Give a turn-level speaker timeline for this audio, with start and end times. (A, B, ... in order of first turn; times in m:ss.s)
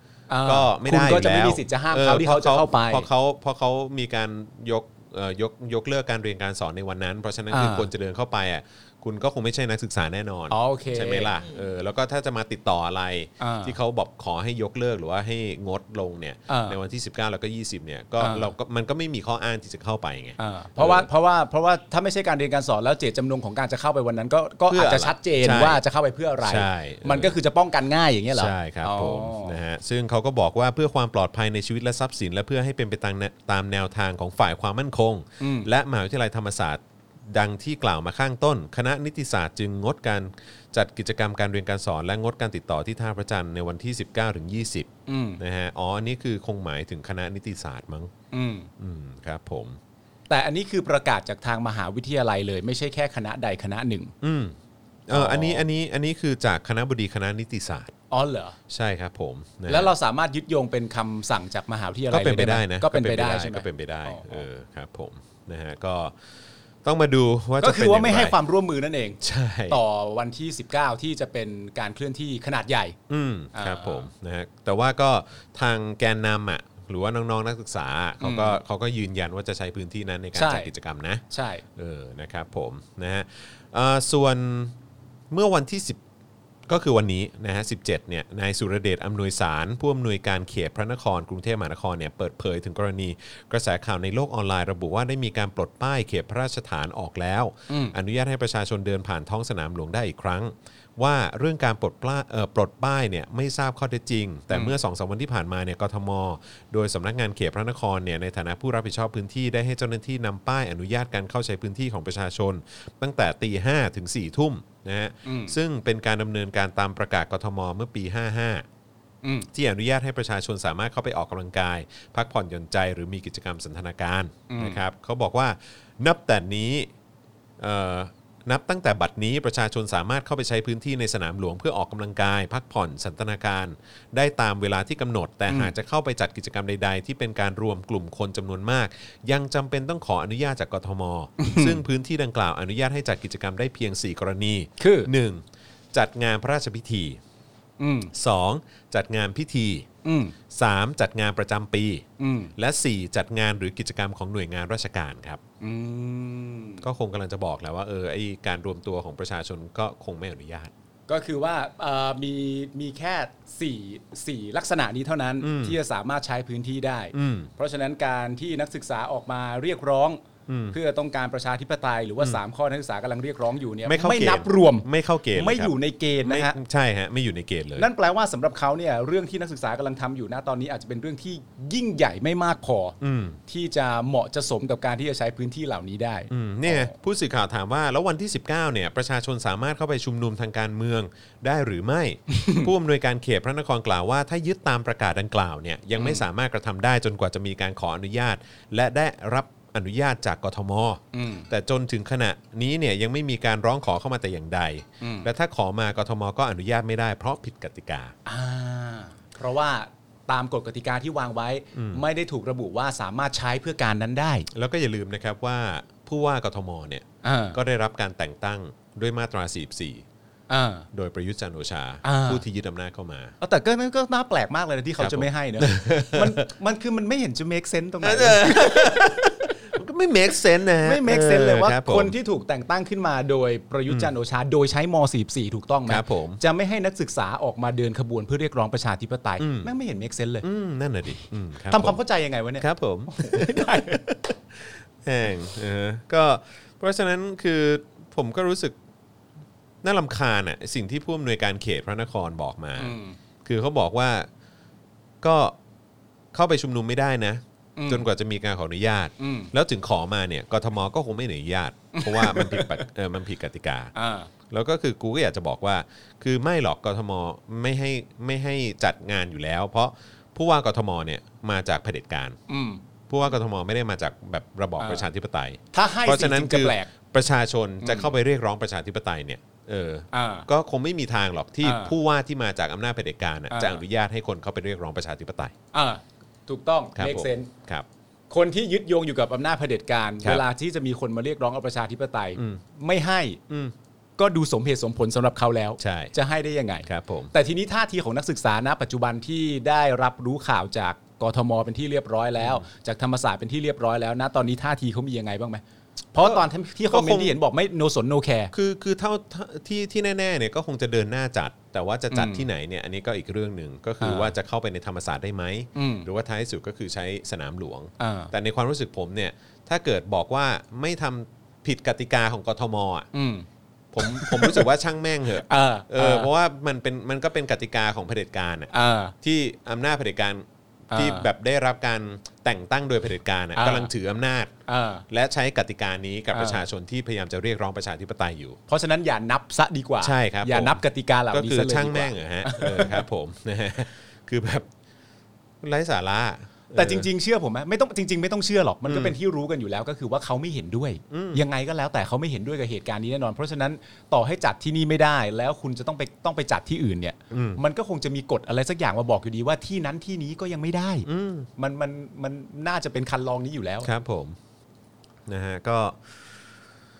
0:00.3-0:03.1 A
0:00.4-0:21.1 B
0:07.5-0:07.9 A
0:10.5-0:11.3 A
0:13.4-0:13.8 A
0:16.5-0:16.8 A
0:18.2-0:18.5 A
0:20.4-0:29.6 A
0:24.7-0:25.8 B
0:26.4-0:27.4 B
0:28.3-0:48.1 B
0:35.4-0:35.7 A
0:45.1-0:45.4 A
0:48.3-0:48.7 A
0:48.8-0:49.8 B
0:50.3-0:54.1 A
0:54.2-0:54.6 B
0:55.1-0:57.9 B
0:55.1-0:55.6 A
0:58.1-0:58.6 A
0:58.7-0:59.9 B
0:59.7-1:04.4 A
1:02.1-1:06.1 B
1:06.8-1:08.4 B
1:07.6-1:13.0 A
1:09.2-1:09.8 B
1:13.1-1:21.2 B
1:13.5-1:14.1 A
1:18.2-1:18.6 A
1:20.4-1:20.7 A
1:21.3-1:21.6 A
1:21.8-1:24.7 B
1:25.3-1:26.0 B
1:26.7-1:58.7 B
1:37.7-1:37.9 A
1:44.5-1:44.8 A
1:55.2-1:55.6 A
1:59.2-1:59.5 A
1:59.5-2:06.9 B
2:04.5-2:04.8 A
2:07.6-2:27.2 B
2:21.4-2:21.8 A
2:24.8-2:25.1 A
2:27.8-2:28.1 A
2:28.1-2:29.9 B
2:30.0-2:30.4 A
2:30.5-2:32.0 B
2:32.2-2:32.5 A
2:32.6-2:35.4 B
2:35.6-2:36.8 A
2:36.8-2:40.7 B
2:41.1-2:56.6 A
2:45.4-2:45.8 B
2:47.1-2:47.5 B
2:50.5-2:50.8 B
2:53.9-2:57.9 B
2:57.8-3:03.0 A
3:03.0-3:03.4 B
3:03.5-3:07.0 A
3:06.3-3:28.1 B
3:12.3-3:12.7 A
3:16.0-3:16.2 A
3:21.1-3:21.5 A
3:25.0-3:25.3 A
3:28.3-3:34.5 A
3:31.7-3:32.0 B
3:34.5-3:40.0 B
3:37.2-3:37.6 A
3:40.5-3:40.9 A
3:40.9-3:43.4 B
3:42.0-3:42.4 A
3:43.4-3:49.2 A
3:45.0-3:46.4 B
3:48.0-3:52.2 B
3:50.8-4:00.5 A
3:55.9-3:56.4 B
3:59.4-3:59.7 B
4:00.4-4:02.0 B
4:01.7-4:04.0 A
4:02.6-4:08.8 B
4:09.8-4:14.3 B
4:12.8-4:13.2 A
4:15.2-4:15.6 B
4:16.3-4:23.9 B
4:17.8-4:18.1 A
4:19.2-4:19.5 A
4:21.9-4:22.8 A
4:24.0-4:24.3 A
4:24.5-4:32.4 B
4:32.5-4:32.8 A
4:33.1-4:45.5 B
4:34.8-4:35.1 A
4:35.7-4:36.9 A
4:37.8-4:38.1 A
4:40.1-4:40.5 A
4:41.6-4:42.0 A
4:43.5-4:43.8 A
4:45.7-4:47.5 A
4:47.0-4:47.9 B
4:48.3-4:53.4 A
4:52.4-4:52.6 B
4:53.5-4:53.7 B
4:54.2-5:05.6 A
4:55.8-4:56.1 B
4:56.9-4:57.3 B
5:02.4-5:02.7 B
5:06.1-5:08.5 A
5:06.2-5:07.4 B
5:08.5-5:23.1 B
5:12.1-5:12.5 A
5:14.0-5:14.4 A
5:15.8-5:16.1 A
5:18.0-5:18.3 A
5:23.1-5:23.5 A
5:23.9-5:28.7 B
5:24.0-5:24.7 A
5:25.4-5:26.3 A
5:28.7-5:29.1 A
5:29.2-5:34.5 B
5:30.9-5:31.3 A
5:33.6-5:33.9 A
5:34.7-5:35.0 A
5:35.1-5:38.6 B
5:36.3-5:36.6 A
5:38.7-5:43.0 A
5:40.0-5:44.7 B
5:45.6-5:47.1 B
5:46.7-6:03.9 A
5:48.9-5:49.2 B
5:51.1-5:51.4 B
5:57.3-5:57.6 B
6:01.0-6:01.5 B
6:03.8-6:04.4 B
6:05.3-6:06.5 B